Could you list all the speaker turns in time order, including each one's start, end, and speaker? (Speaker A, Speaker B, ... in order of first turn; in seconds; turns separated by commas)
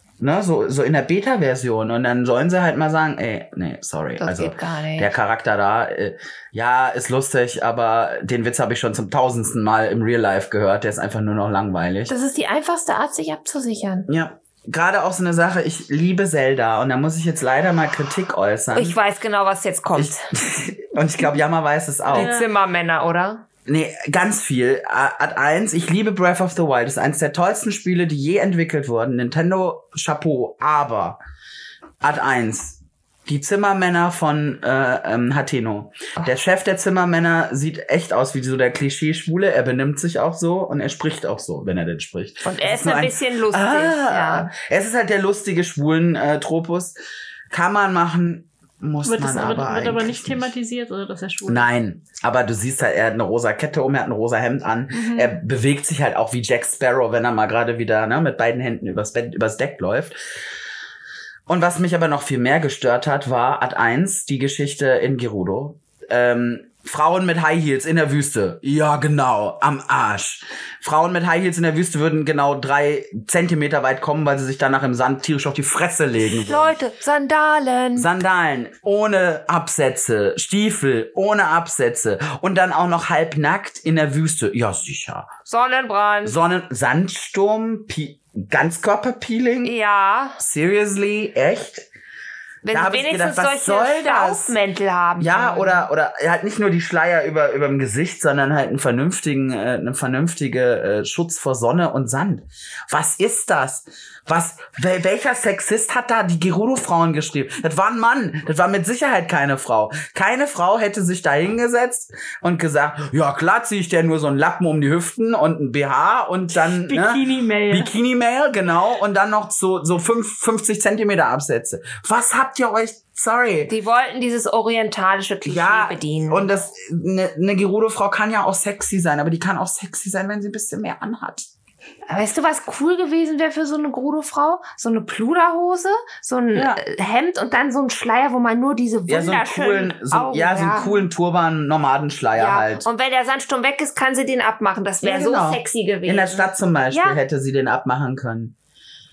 Speaker A: 0.2-12.1, Speaker B: 4.2-5.1, Speaker B: 12.1-14.1, Speaker A: 14.1-19.0, Speaker B: 18.7-20.3, Speaker A: 20.0-22.3, Speaker B: 22.1-23.4, Speaker C: 22.1-22.5, Speaker A: 23.7-31.2, Speaker A: 32.0-47.0, Speaker B: 42.4-44.5, Speaker A: 47.5-50.5, Speaker C: 49.1-51.7, Speaker A: 51.5-60.2, Speaker C: 54.9-55.3, Speaker A: 61.5-76.7, Speaker B: 76.2-78.1, Speaker A: 78.0-85.3, Speaker B: 85.5-86.4, Speaker A: 86.2-89.7, Speaker B: 89.6-90.4, Speaker A: 90.4-91.9, Speaker B: 92.7-95.9, Speaker A: 92.7-94.6, Speaker A: 95.2-123.7, Speaker C: 116.6-117.9, Speaker B: 123.7-126.5, Speaker A: 125.5-131.5, Speaker B: 132.1-141.1, Speaker A: 136.6-136.8, Speaker A: 139.1-142.8, Speaker B: 142.4-147.2, Speaker A: 145.0-148.5